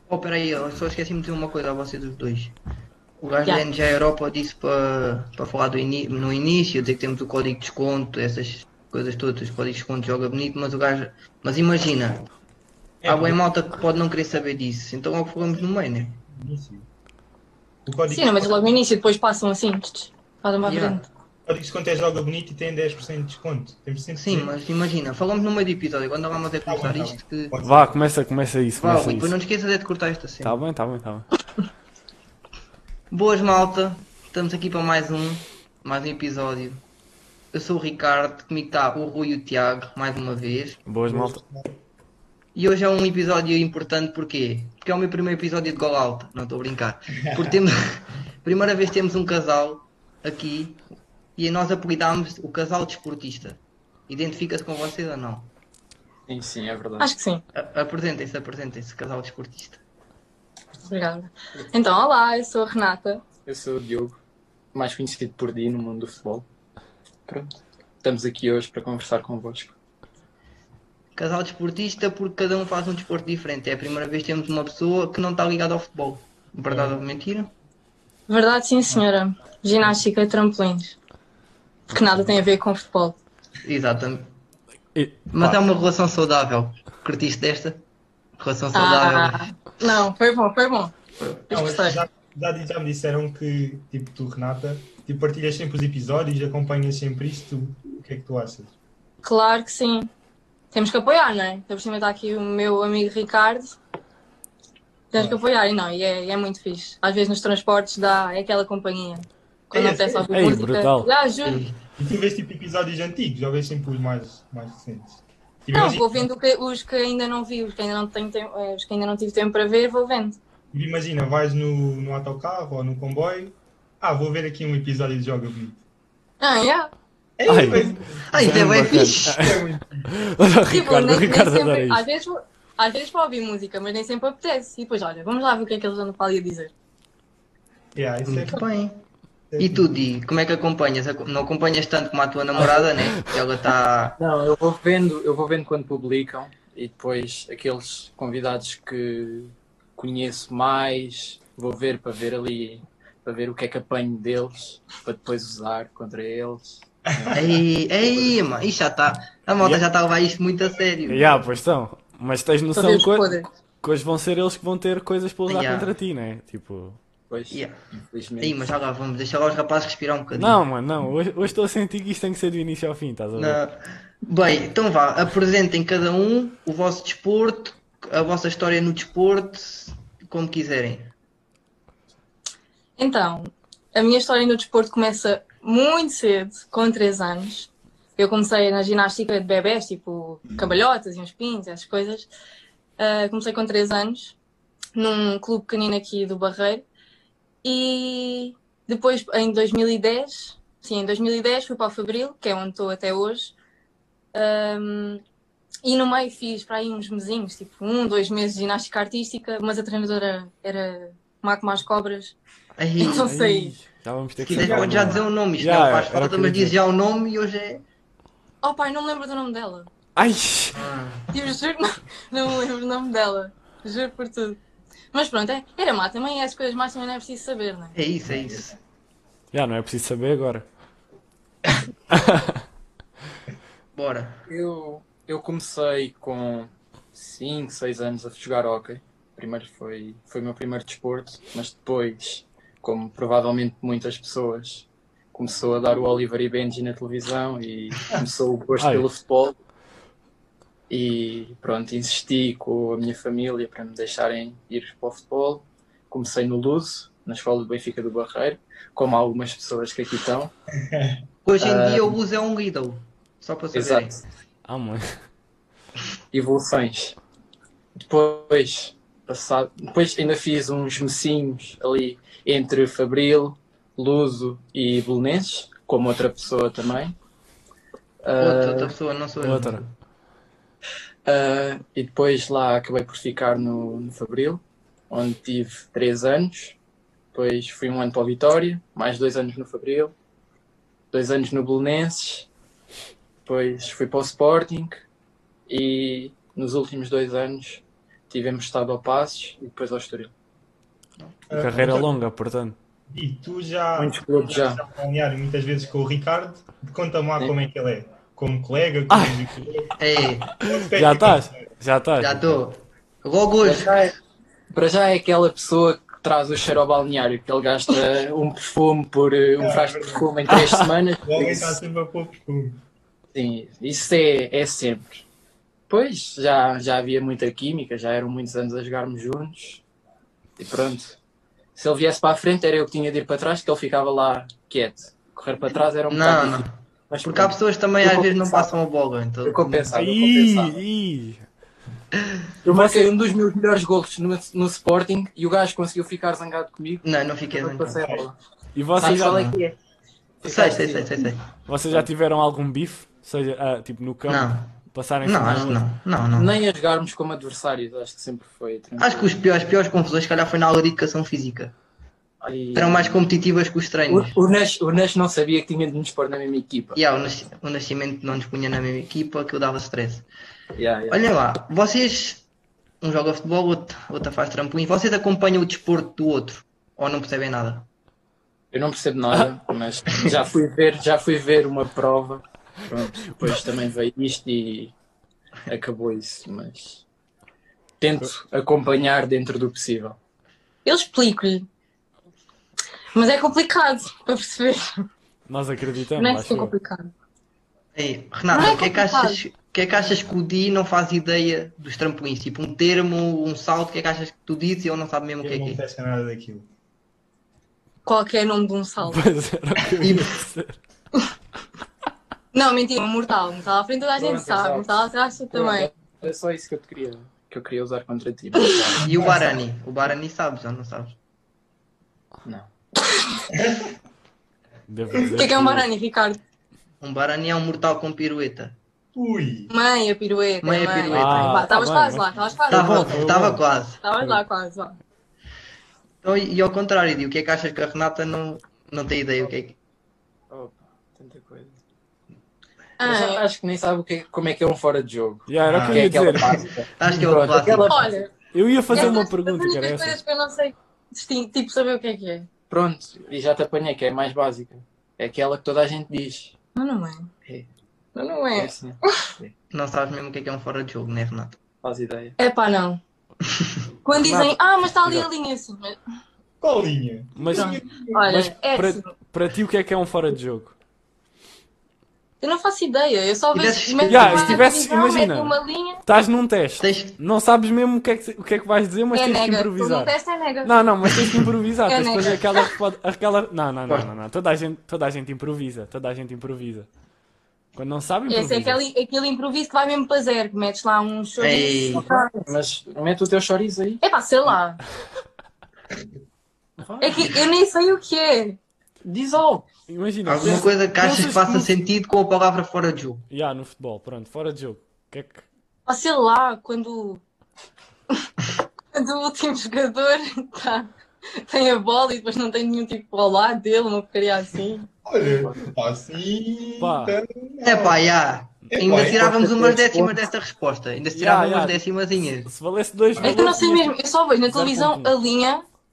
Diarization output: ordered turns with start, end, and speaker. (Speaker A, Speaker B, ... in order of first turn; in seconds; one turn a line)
Speaker A: 0.1-2.5
Speaker A: 3.2-12.2
Speaker B: 13.0-13.4
Speaker A: 13.1-16.2
Speaker B: 16.3-16.9
Speaker B: 17.9-18.7
Speaker C: 18.1-21.1
Speaker A: 20.6-21.0
Speaker B: 21.4-24.5
Speaker A: 24.1-27.5
Speaker B: 26.6-27.9
Speaker D: 27.6-29.4
Speaker A: 28.8-30.6
Speaker D: 30.4-31.3
Speaker A: 33.1-36.8
Speaker A: 37.5-40.8
Speaker D: 40.9-41.4
Speaker B: 41.1-41.8
Speaker A: 42.5-50.8
Speaker A: 51.4-55.5
Speaker E: 56.3-57.1
Speaker C: 57.0-57.4
Speaker A: 57.5-59.8
Speaker C: 60.8-63.2
Speaker E: 63.4-64.2
Speaker E: 64.7-66.4
Speaker E: 68.0-69.8
Speaker A: 71.2-77.5
Speaker B: 76.7-77.0
Speaker C: 78.3-81.0
Speaker D: 81.9-82.4
Speaker C: 81.9-83.2
Speaker A: 83.6-84.3
Speaker D: 84.9-85.6
Speaker A: 85.3-87.8
Speaker A: 88.4-89.4
Speaker C: 88.7-90.9
Speaker C: 91.5-92.0
Speaker B: 91.5-98.7
Speaker C: 99.2-100.1
Speaker C: 100.7-103.8
Speaker C: 105.1-111.6
Speaker B: 109.7-110.2
Speaker D: 110.3-111.1
Speaker A: 111.4-111.8
Speaker B: 112.0-116.2
Speaker C: 115.7-120.4
Speaker B: 120.7-125.8
Speaker C: 126.4-126.9
Speaker B: 127.4-130.2
Speaker D: 127.5-132.0
Speaker A: 128.3-129.4
Speaker C: 130.7-136.7
Speaker B: 137.9-138.6
Speaker A: 138.2-139.0
Speaker B: 139.5-139.9
Speaker A: 139.6-144.2
Speaker E: 142.5-142.9
Speaker E: 144.2-157.5
Speaker B: 157.1-157.6
Speaker A: 157.3-161.4
Speaker D: 161.1-167.0
Speaker C: 162.7-163.4
Speaker A: 165.5-165.9
Speaker E: 167.3-168.7
Speaker A: 167.5-167.8
Speaker A: 168.4-170.6
Speaker D: 170.3-173.6
Speaker A: 173.3-181.1
Speaker C: 183.0-192.3
Speaker C: 193.0-194.3
Speaker C: 194.9-196.8
Speaker C: 197.6-203.5
Speaker C: 204.3-205.2
Speaker C: 205.8-212.3
Speaker A: 212.8-213.3
Speaker C: 213.0-213.8
Speaker D: 213.2-216.7
Speaker A: 214.4-217.8
Speaker B: 214.5-215.2
Speaker C: 218.6-219.9
Speaker D: 220.2-220.8
Speaker A: 220.7-221.3
Speaker C: 221.3-224.6
Speaker C: 225.1-227.9
Speaker A: 227.9-228.7
Speaker B: 228.3-228.7
Speaker D: 229.5-230.6
Speaker D: 232.1-232.6
Speaker A: 233.9-234.4
Speaker E: 234.5-249.5
Speaker D: 248.8-249.1
Speaker E: 250.9-260.5
Speaker B: 260.8-261.2
Speaker A: 261.4-264.2
Speaker E: 261.6-262.2
Speaker E: 263.7-264.2
Speaker D: 264.6-265.1
Speaker E: 266.3-267.2
Speaker E: 268.0-277.1
Speaker E: 278.2-278.9
Speaker A: 278.4-279.9
Speaker D: 279.4-279.8
Speaker E: 281.2-286.8
Speaker E: 287.3-290.1
Speaker E: 291.1-292.5
Speaker E: 293.4-295.0
Speaker E: 295.7-300.3
Speaker B: 301.5-302.1
Speaker D: 301.5-302.8
Speaker B: 303.1-310.0
Speaker E: 304.0-304.8
Speaker D: 309.1-309.5
Speaker A: 310.0-310.5
Speaker B: 310.6-311.7
Speaker D: 310.6-312.6
Speaker A: 312.2-314.0
Speaker E: 313.6-314.1
Speaker E: 314.7-321.8
Speaker B: 319.6-320.3
Speaker D: 320.5-320.9
Speaker B: 321.2-322.8
Speaker E: 323.3-325.2
Speaker E: 325.9-329.8
Speaker E: 330.6-331.2
Speaker E: 331.7-338.8
Speaker A: 336.1-339.9
Speaker E: 339.4-340.8
Speaker D: 339.9-341.4
Speaker E: 342.6-348.4
Speaker D: 342.7-343.1
Speaker A: 347.0-348.0
Speaker D: 348.7-349.4
Speaker E: 349.0-349.8
Speaker A: 349.0-349.6
Speaker E: 350.4-351.2
Speaker A: 350.4-351.5
Speaker D: 351.6-355.8
Speaker A: 354.3-356.6
Speaker E: 356.3-359.4
Speaker A: 359.0-361.7
Speaker E: 362.4-363.2
Speaker A: 362.7-364.3
Speaker E: 364.1-367.0
Speaker A: 366.9-370.2
Speaker E: 370.7-371.2
Speaker A: 371.1-372.4
Speaker A: 373.0-377.9
Speaker E: 378.7-384.9
Speaker E: 385.7-387.0
Speaker E: 388.0-390.2
Speaker C: 390.8-391.6
Speaker C: 393.1-395.1
Speaker D: 395.5-396.7
Speaker C: 396.2-397.1
Speaker A: 397.9-405.8
Speaker C: 398.5-399.4
Speaker B: 405.4-406.7
Speaker C: 408.0-409.2
Speaker D: 409.0-410.8
Speaker A: 410.0-410.3
Speaker C: 412.5-415.9
Speaker E: 414.2-419.1
Speaker C: 418.5-418.9
Speaker A: 419.0-421.1
Speaker B: 419.0-419.4
Speaker B: 423.5-423.9
Speaker D: 424.9-425.9
Speaker B: 425.1-425.4
Speaker C: 425.4-426.4
Speaker A: 427.0-428.8
Speaker B: 429.1-429.7
Speaker C: 429.7-433.1
Speaker A: 430.6-431.6
Speaker D: 431.1-433.6
Speaker A: 432.7-434.0
Speaker B: 433.1-433.5
Speaker C: 434.0-435.0
Speaker A: 436.2-439.8
Speaker E: 440.5-441.8
Speaker C: 443.0-443.4
Speaker E: 443.0-448.2
Speaker D: 445.5-446.6
Speaker B: 445.7-446.2
Speaker A: 446.3-448.0
Speaker C: 447.9-448.3
Speaker D: 448.5-450.2
Speaker C: 448.9-452.5
Speaker E: 452.7-456.5
Speaker C: 456.7-457.3
Speaker C: 458.1-459.2
Speaker E: 458.5-459.5
Speaker A: 459.7-461.6
Speaker E: 461.8-462.3
Speaker C: 462.4-463.0
Speaker C: 464.0-466.0
Speaker D: 464.1-465.3
Speaker B: 466.6-468.3
Speaker D: 467.4-470.7
Speaker C: 467.5-469.1
Speaker C: 472.4-476.0
Speaker A: 473.5-474.7
Speaker D: 474.1-486.9
Speaker A: 476.8-477.2
Speaker C: 479.1-480.8
Speaker C: 481.9-482.6
Speaker D: 487.7-488.8
Speaker C: 488.3-492.5
Speaker A: 491.4-492.0
Speaker E: 491.9-494.0
Speaker C: 494.0-494.8
Speaker E: 496.8-497.3
Speaker C: 497.0-498.6
Speaker E: 499.0-499.6
Speaker D: 499.9-501.7
Speaker A: 500.2-503.3
Speaker D: 503.3-505.4
Speaker C: 505.9-507.2
Speaker C: 508.9-514.9
Speaker B: 515.0-518.0
Speaker E: 515.2-515.6
Speaker D: 516.8-517.1
Speaker A: 517.6-522.5
Speaker B: 518.7-519.3
Speaker E: 519.0-520.2
Speaker D: 521.1-521.8
Speaker D: 522.4-523.9
Speaker B: 523.2-523.5
Speaker C: 523.2-525.6
Speaker D: 524.5-525.1